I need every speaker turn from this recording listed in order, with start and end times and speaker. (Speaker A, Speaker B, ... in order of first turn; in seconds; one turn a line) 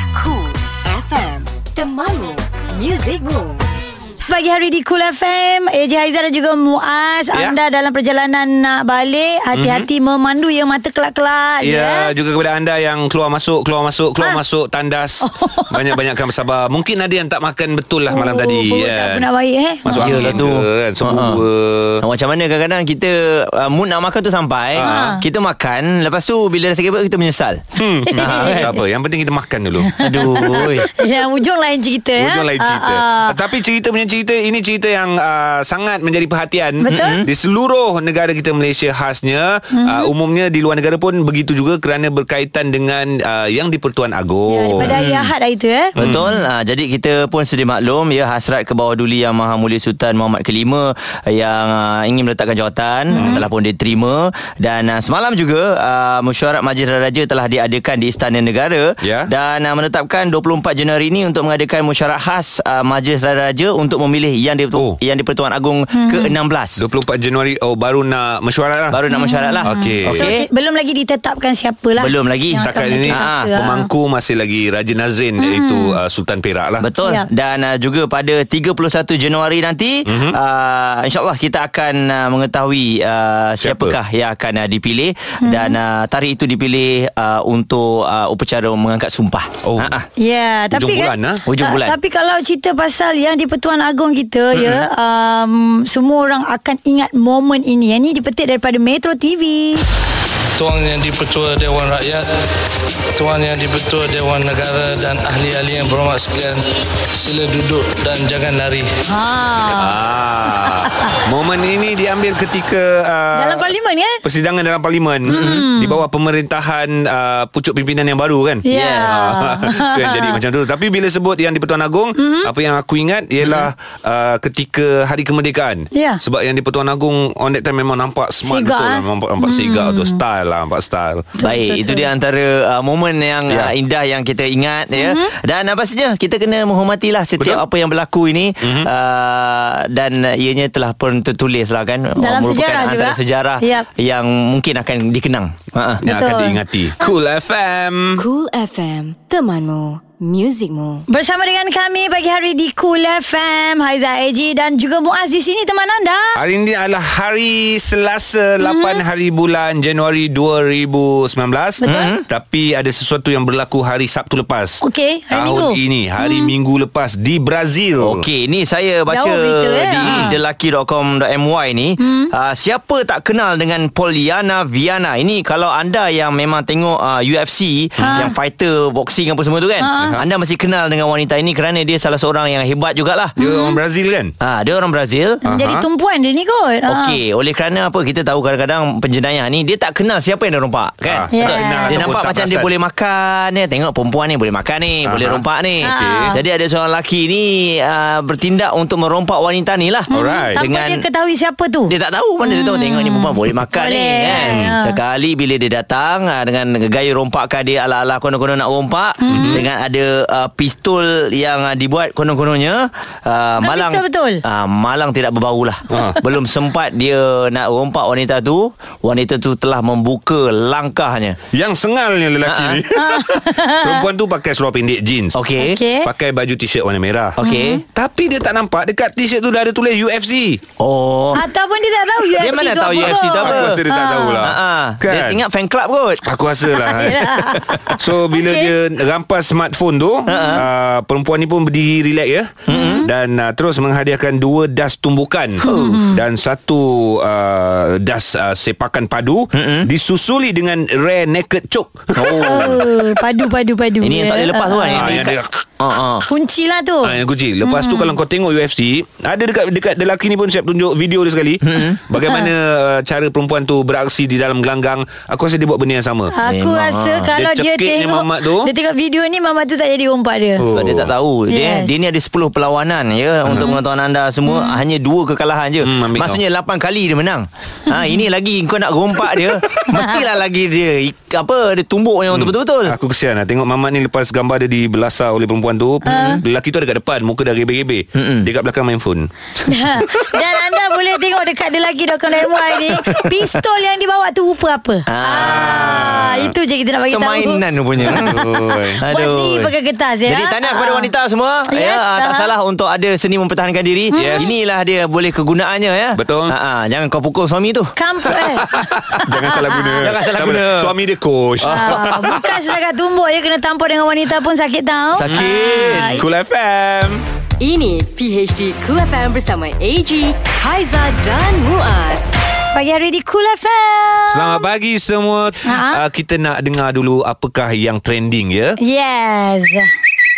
Speaker A: 0.1-3.8
Speaker B: 4.3-12.1
Speaker C: 9.5-9.9
Speaker C: 11.6-19.2
Speaker B: 15.2-16.0
Speaker B: 18.1-20.4
Speaker C: 19.8-22.0
Speaker D: 19.9-21.4
Speaker D: 22.0-27.6
Speaker C: 24.7-25.2
Speaker B: 24.8-25.2
Speaker C: 27.8-30.9
Speaker B: 28.1-28.7
Speaker D: 28.2-28.7
Speaker B: 30.0-33.4
Speaker D: 30.0-30.9
Speaker C: 32.2-45.0
Speaker B: 36.8-37.2
Speaker D: 36.9-37.3
Speaker B: 39.7-40.1
Speaker B: 44.5-46.0
Speaker D: 44.8-45.3
Speaker D: 46.0-66.8
Speaker C: 46.0-46.3
Speaker B: 53.1-53.4
Speaker C: 53.1-53.5
Speaker C: 59.0-59.3
Speaker B: 66.0-66.3
Speaker C: 66.8-69.0
Speaker D: 68.9-70.4
Speaker B: 69.1-73.9
Speaker C: 69.6-70.3
Speaker D: 72.0-73.5
Speaker C: 72.6-76.9
Speaker B: 75.4-76.0
Speaker D: 76.8-90.0
Speaker C: 80.0-80.4
Speaker C: 83.6-84.0
Speaker B: 85.4-85.8
Speaker C: 89.6-90.0
Speaker B: 90.2-99.8
Speaker C: 90.7-91.4
Speaker D: 91.5-92.0
Speaker C: 94.5-94.8
Speaker E: 100.6-102.4
Speaker E: 103.1-108.9
Speaker B: 109.1-110.0
Speaker C: 109.7-113.7
Speaker B: 110.6-111.1
Speaker B: 113.3-114.2
Speaker C: 114.2-131.3
Speaker B: 115.3-116.0
Speaker D: 115.3-115.6
Speaker B: 118.7-120.4
Speaker D: 118.7-119.1
Speaker B: 122.2-122.5
Speaker B: 125.9-126.2
Speaker B: 128.4-130.2
Speaker B: 131.4-132.1
Speaker D: 131.4-146.0
Speaker B: 134.9-135.3
Speaker C: 137.4-137.6
Speaker C: 138.6-138.9
Speaker B: 142.2-143.9
Speaker C: 146.0-148.2
Speaker B: 146.0-146.6
Speaker A: 148.2-151.0
Speaker B: 151.1-156.4
Speaker C: 156.3-168.2
Speaker B: 158.6-159.0
Speaker B: 161.8-162.1
Speaker D: 161.8-162.2
Speaker B: 164.8-166.5
Speaker D: 168.0-183.3
Speaker B: 169.1-170.3
Speaker C: 170.0-170.3
Speaker B: 172.0-172.3
Speaker C: 178.0-178.3
Speaker B: 178.0-178.3
Speaker B: 179.8-180.2
Speaker C: 179.9-180.2
Speaker B: 183.4-183.8
Speaker C: 183.4-184.3
Speaker D: 184.4-185.4
Speaker C: 185.4-185.8
Speaker B: 185.4-187.2
Speaker D: 186.9-201.0
Speaker C: 191.0-192.7
Speaker B: 191.3-192.1
Speaker C: 195.0-196.4
Speaker B: 195.8-196.4
Speaker C: 200.1-200.6
Speaker B: 200.1-201.9
Speaker D: 201.9-221.4
Speaker B: 202.4-204.9
Speaker C: 204.2-204.8
Speaker B: 209.2-209.7
Speaker C: 209.3-209.7
Speaker B: 213.6-214.4
Speaker C: 215.9-216.2
Speaker C: 221.5-225.4
Speaker D: 222.4-222.8
Speaker B: 222.9-224.1
Speaker D: 225.3-225.8
Speaker B: 225.6-226.1
Speaker C: 226.0-227.4
Speaker D: 227.4-227.8
Speaker B: 227.4-227.8
Speaker C: 227.9-230.6
Speaker D: 230.8-231.4
Speaker B: 231.3-234.5
Speaker D: 232.4-233.8
Speaker C: 232.9-235.4
Speaker D: 234.4-236.2
Speaker C: 236.2-252.8
Speaker B: 236.8-238.7
Speaker D: 240.3-240.6
Speaker B: 240.3-240.6
Speaker D: 242.7-243.1
Speaker B: 242.7-243.1
Speaker B: 245.6-246.2
Speaker D: 245.7-245.9
Speaker D: 249.5-249.9
Speaker D: 252.2-252.8
Speaker B: 252.2-255.2
Speaker D: 254.0-256.3
Speaker C: 254.9-255.6
Speaker B: 256.2-258.2
Speaker C: 257.0-266.3
Speaker D: 261.6-262.0
Speaker B: 262.2-262.5
Speaker B: 266.3-270.7
Speaker D: 266.4-267.3
Speaker C: 267.3-268.7
Speaker C: 270.6-271.1
Speaker D: 270.7-282.9
Speaker B: 271.5-271.9
Speaker C: 273.4-273.8
Speaker B: 273.5-273.8
Speaker B: 274.4-274.8
Speaker C: 275.8-276.4
Speaker B: 277.9-278.2
Speaker B: 279.9-280.2
Speaker C: 282.3-290.4
Speaker B: 286.1-286.4
Speaker D: 288.1-288.5
Speaker B: 289.7-301.1
Speaker D: 292.9-293.4
Speaker D: 295.1-296.2
Speaker C: 295.3-296.5
Speaker D: 297.0-298.4
Speaker C: 298.0-299.0
Speaker D: 299.0-299.7
Speaker D: 300.2-307.9
Speaker B: 301.7-302.5
Speaker B: 304.1-304.5
Speaker C: 304.1-304.6
Speaker C: 306.1-306.5
Speaker B: 308.0-310.1
Speaker C: 308.3-312.6
Speaker D: 310.0-310.9
Speaker D: 311.6-312.0
Speaker B: 311.6-316.2
Speaker D: 315.2-316.2
Speaker C: 315.3-317.2
Speaker A: 317.6-322.3
Speaker B: 322.7-324.6
Speaker C: 324.3-328.8
Speaker B: 325.6-326.0
Speaker B: 328.8-329.9